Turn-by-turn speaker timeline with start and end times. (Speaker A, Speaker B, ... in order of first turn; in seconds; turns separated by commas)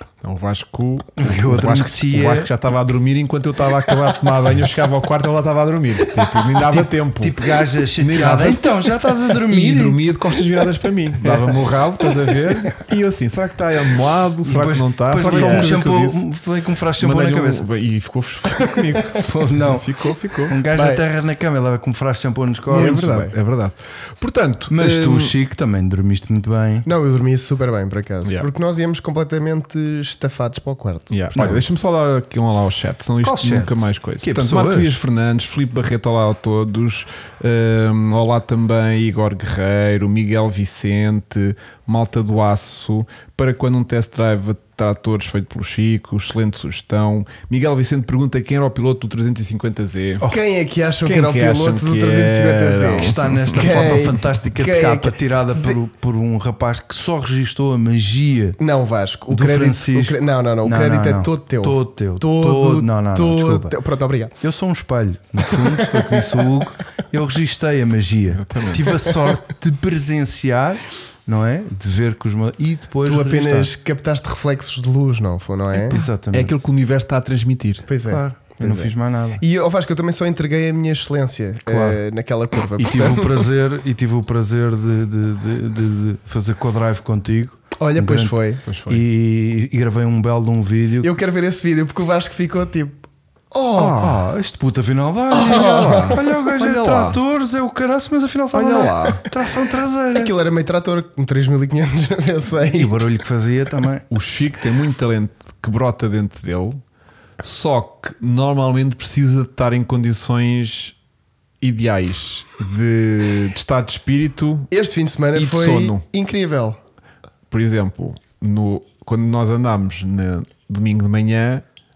Speaker A: 0.2-7.4, Speaker B: 1.2-2.5, Speaker B: 6.5-10.0, Speaker A: 8.0-16.2, Speaker B: 11.2-11.6, Speaker B: 14.4-17.6, Speaker C: 15.2-15.7, Speaker A: 17.0-20.6, Speaker C: 18.5-19.2, Speaker B: 19.2-23.2, Speaker C: 20.7-21.0, Speaker A: 22.7-25.3, Speaker C: 22.7-23.3, Speaker B: 24.7-26.9, Speaker C: 26.9-31.1, Speaker A: 31.1-50.2, Speaker B: 31.3-31.6, Speaker B: 33.2-35.0, Speaker C: 50.2-55.8, Speaker A: 51.0-53.7, Speaker B: 52.9-58.6, Speaker C: 58.6-64.3, Speaker B: 59.3-63.7, Speaker B: 64.4-73.7, Speaker C: 65.4-66.4, Speaker A: 68.3-68.8, Speaker C: 69.0-69.3, Speaker C: 73.0-76.0, Speaker B: 75.7-76.6, Speaker A: 76.3-77.9, Speaker C: 77.9-83.5, Speaker B: 78.0-79.4, Speaker B: 81.6-82.0, Speaker B: 82.8-91.1, Speaker C: 87.8-88.6, Speaker A: 88.7-89.0, Speaker C: 91.0-94.0, Speaker A: 93.8-94.2, Speaker B: 93.9-100.3, Speaker C: 95.3-96.2, Speaker A: 95.3-97.2, Speaker A: 98.5-99.2, Speaker C: 100.1-103.1, Speaker B: 102.6-104.0, Speaker A: 104.1-106.8, Speaker A: 107.4-110.9, Speaker A: 111.6-114.7, Speaker C: 114.7-116.8, Speaker A: 115.3-116.0, Speaker A: 117.5-121.6